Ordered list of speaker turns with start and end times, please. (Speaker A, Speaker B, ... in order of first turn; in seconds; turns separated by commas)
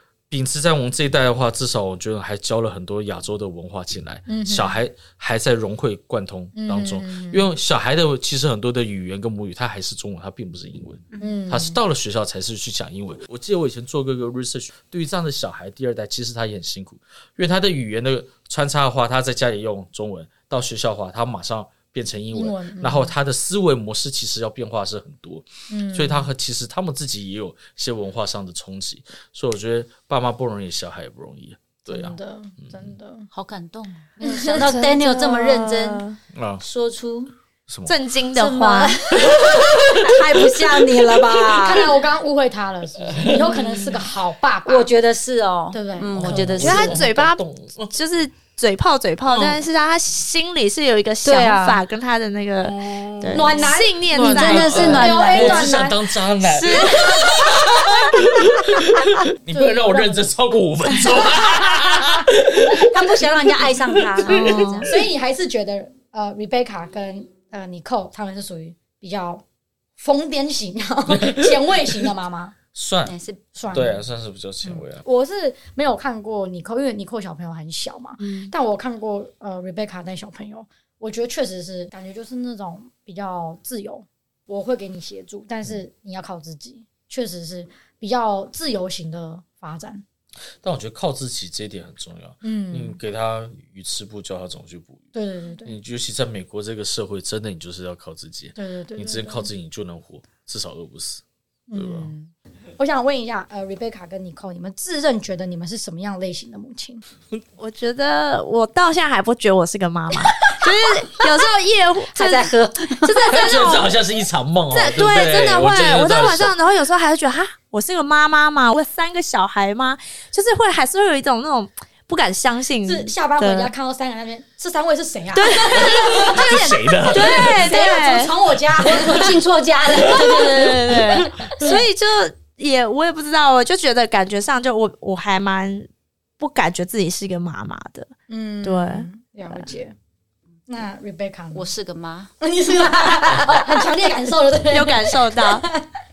Speaker A: 0.3-32.9, Speaker B: 4.3-4.8, Speaker B: 6.5-7.5, Speaker B: 11.2-11.8, Speaker B: 22.3-23.1, Speaker B: 25.7-26.3, Speaker B: 31.9-33.3, Speaker C: 33.3-36.0, Speaker B: 34.2-34.8, Speaker D: 34.5-36.2, Speaker A: 36.3-36.6, Speaker C: 36.6-37.3, Speaker A: 37.7-37.9, Speaker D: 37.9-39.0, Speaker C: 38.3-41.9, Speaker A: 39.2-40.4, Speaker B: 41.5-44.9, Speaker A: 43.1-43.6, Speaker C: 44.6-47.0, Speaker B: 45.7-46.7, Speaker A: 46.1-47.9, Speaker D: 46.6-55.1, Speaker C: 51.2-51.8, Speaker B: 52.7-56.1, Speaker C: 53.3-55.7, Speaker A: 54.1-64.9, Speaker C: 56.5-57.6, Speaker D: 56.8-57.0, Speaker B: 59.5-60.3, Speaker C: 62.7-64.9, Speaker D: 64.3-64.8, Speaker B: 64.8-69.4, Speaker B: 70.0-72.5, Speaker A: 71.1-71.9, Speaker A: 72.7-73.1, Speaker C: 73.0-73.4, Speaker B: 73.5-74.0, Speaker A: 73.7-75.0, Speaker B: 74.6-90.0, Speaker D: 78.2-78.5, Speaker A: 90.6-95.1, Speaker B: 92.4-93.0, Speaker B: 95.1-95.7, Speaker A: 95.6-101.2, Speaker B: 98.5-99.5, Speaker B: 101.7-107.0, Speaker A: 101.7-102.1, Speaker D: 107.6-112.5, Speaker C: 111.2-111.5, Speaker C: 112.1-113.5, Speaker D: 113.0-113.9, Speaker A: 113.3-116.5, Speaker D: 114.7-123.7, Speaker B: 122.8-129.4, Speaker D: 125.3-128.3, Speaker A: 125.8-127.6, Speaker C: 128.8-131.0, Speaker D: 130.0-135.9, Speaker A: 130.1-130.3, Speaker B: 131.4-131.7, Speaker D: 136.4-138.1, Speaker B: 138.3-139.9, Speaker D: 138.6-139.7, Speaker B: 140.7-141.7, Speaker C: 141.5-142.3, Speaker B: 142.4-145.8, Speaker C: 142.8-143.6, Speaker D: 144.7-145.7